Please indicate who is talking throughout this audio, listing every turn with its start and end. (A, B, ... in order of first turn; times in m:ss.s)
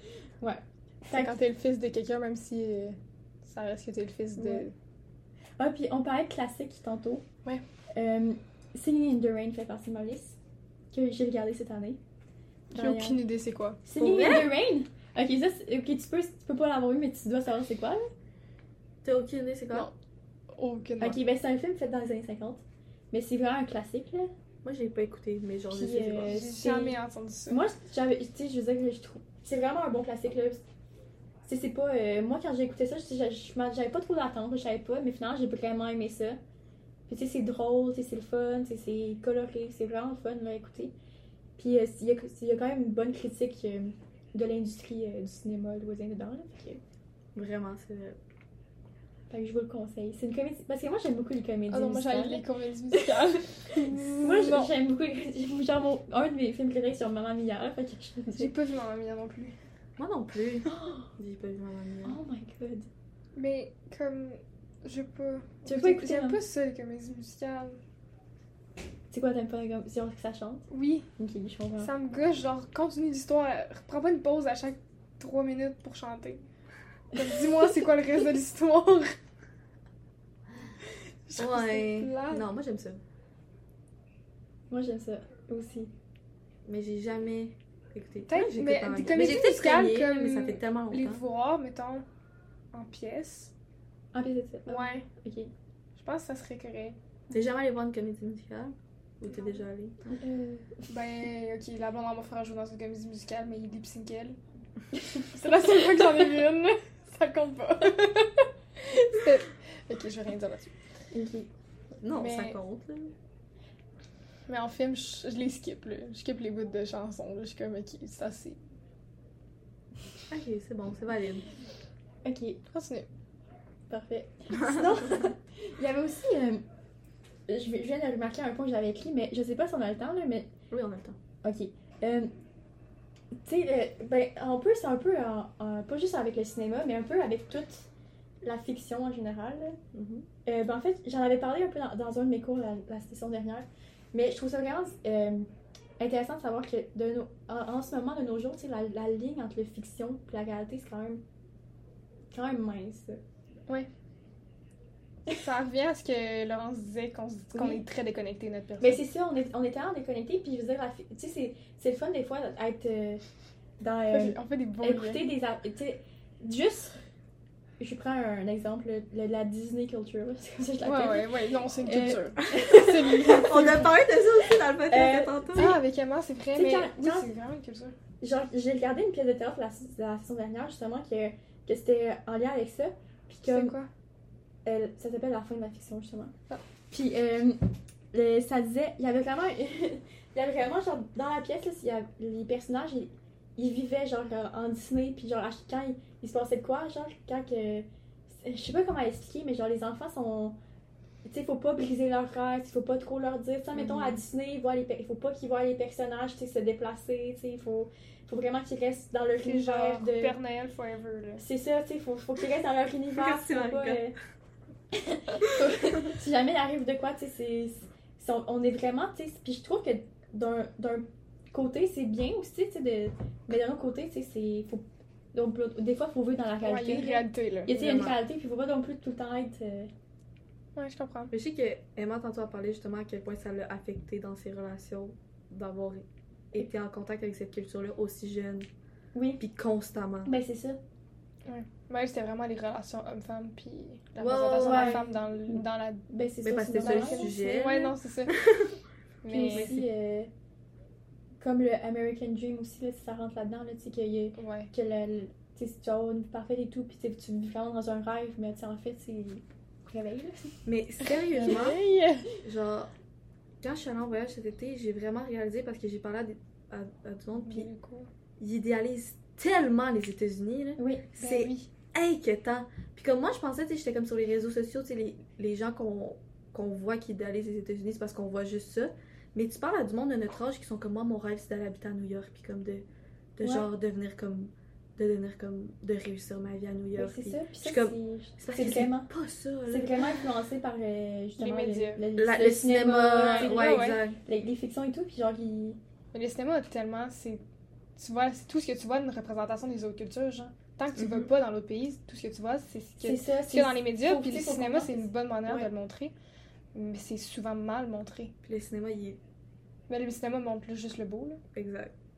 0:00.4-0:01.4 A
0:01.1-0:04.7 B
0:04.4-0:04.7 A
0:05.6-0:07.2 A
0:07.9-0:10.4 A
0:10.9-0:12.0 A
0:12.7-0:13.2 A
0:12.8-0:13.8 B
0:13.8-0:18.0 A
0:14.0-0:14.5 C
0:19.0-0:19.9 C
0:20.5-0:21.2 B
0:21.0-0:24.3 A
0:24.6-0:26.4 C
0:25.7-0:27.0 A
0:26.3-0:27.6 B
0:27.5-0:30.6 A
0:31.4-0:36.4 A
0:37.1-0:40.9 A
0:41.6-0:46.8 A
0:47.4-0:48.2 C
0:49.3-0:58.5 A
0:51.7-0:54.7 B
0:58.4-0:59.6 B
1:00.0-1:02.2 C
1:00.7-1:01.1 A
1:02.0-1:02.9 A
1:03.4-1:07.8 B
1:05.6-1:06.4 A
1:09.1-1:11.9 A
1:10.7-1:11.1 B
1:11.8-1:16.5 B
1:17.1-1:19.2 B
1:21.3-1:22.4 B
1:21.4-1:23.0 C
1:24.7-1:25.9 A
1:26.7-1:31.2 C
1:28.3-1:32.0 B
1:32.7-1:33.5 B
1:34.1-1:35.5 A
1:34.7-1:35.1 B
1:36.0-1:37.0 B
1:37.3-1:40.2 C
1:40.2-1:40.8 A
1:40.9-1:44.4 B
1:45.3-1:50.8 B
1:51.1-1:51.5 A
1:52.0-1:53.1 C
1:52.2-1:52.6 B
1:54.5-1:58.6 B
2:00.3-2:01.5 C
2:02.2-2:02.6 A
2:02.7-2:03.1 B
2:03.9-2:06.6 A
2:07.5-2:10.5 A
2:10.7-2:11.2 C
2:11.4-2:12.3 A
2:13.4-2:17.9 A
2:18.4-2:19.8 A
2:19.9-2:20.3 C
2:20.5-2:25.5 A
2:26.0-2:31.2 A
2:32.3-2:33.2 A
2:35.3-2:39.0 B
2:37.5-2:37.8 A
2:38.8-2:43.2 A
2:43.8-2:47.0 A
2:44.1-2:45.2 B
2:47.8-2:51.3 A
2:50.8-2:53.9 B
2:51.8-2:55.6 A
2:52.9-2:55.8 C
2:55.5-2:58.0 B
2:56.5-2:57.3 A
2:58.2-3:03.8 A
3:03.5-3:03.9 B
3:04.6-3:06.4 A
3:06.9-3:07.6 A
3:08.1-3:20.6 A
3:21.2-3:30.4 A
3:23.8-3:24.2 C
3:29.4-3:31.4 B
3:31.4-3:34.2 A
3:33.1-3:34.1 C
3:34.9-3:49.9 A
3:46.6-3:47.9 B
3:47.7-3:48.2 C
3:50.8-3:51.3 B
3:51.3-3:58.7 C
3:59.1-3:59.4 A
3:59.4-4:00.3 C
4:00.2-4:00.8 A
4:01.5-4:06.1 B
4:04.2-4:05.0 C
4:04.6-4:07.3 A
4:06.4-4:08.7 C
4:06.8-4:08.4 B
4:09.2-4:09.8 B
4:09.3-4:10.3 A
4:11.4-4:20.6 A
4:14.4-4:14.7 B
4:20.7-4:21.8 C
4:21.3-4:22.3 B
4:21.4-4:21.6 A
4:22.4-4:22.9 C
4:23.6-4:27.7 C
4:27.4-4:28.1 B
4:28.4-4:42.9 C
4:30.8-4:31.1 A
4:31.2-4:31.7 B
4:43.4-4:50.2 C
4:43.4-4:43.7 A
4:47.0-4:49.1 A
4:49.7-4:55.8 A
4:51.4-4:52.0 B
4:52.2-4:54.2 C
4:53.1-4:54.0 B
4:56.1-4:57.4 B
4:58.0-5:06.1 B
5:03.0-5:05.7 A
5:06.7-5:08.3 B
5:08.4-5:09.2 C
5:09.9-5:11.4 B
5:11.5-5:11.9 C